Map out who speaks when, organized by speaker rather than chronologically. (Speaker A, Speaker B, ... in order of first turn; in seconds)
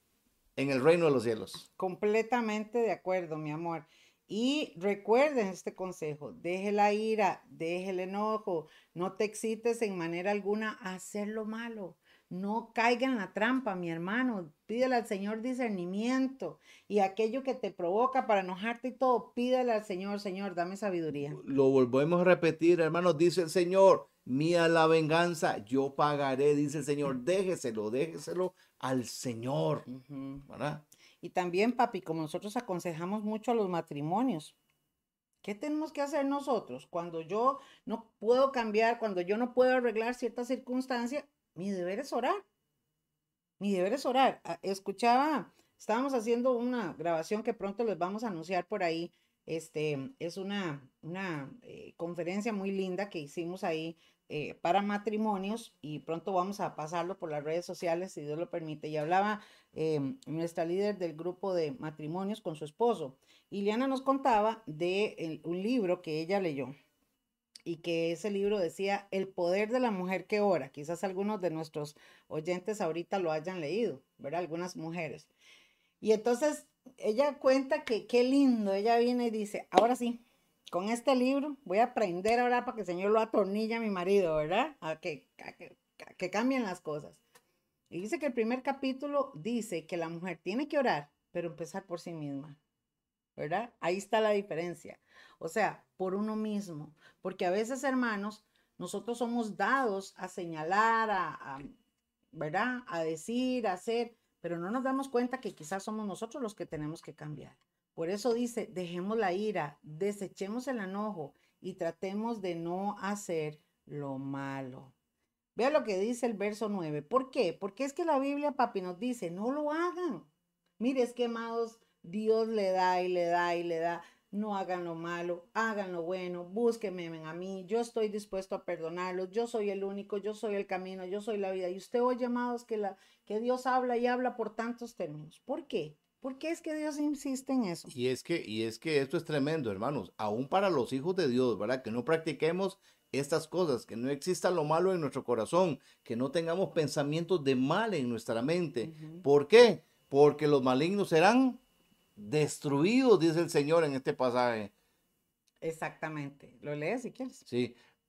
Speaker A: 0.6-1.6, 21.1-29.9, 30.5-30.8, 137.9-151.6, 152.2-154.7, 157.5-157.8
Speaker B: 1.8-21.4, 29.9-30.5, 31.2-34.5, 35.4-42.4, 43.6-66.7, 67.7-75.3, 76.0-87.2, 87.9-92.6, 93.3-101.7, 102.3-114.9, 115.5-137.9, 148.8-149.2, 155.6-157.4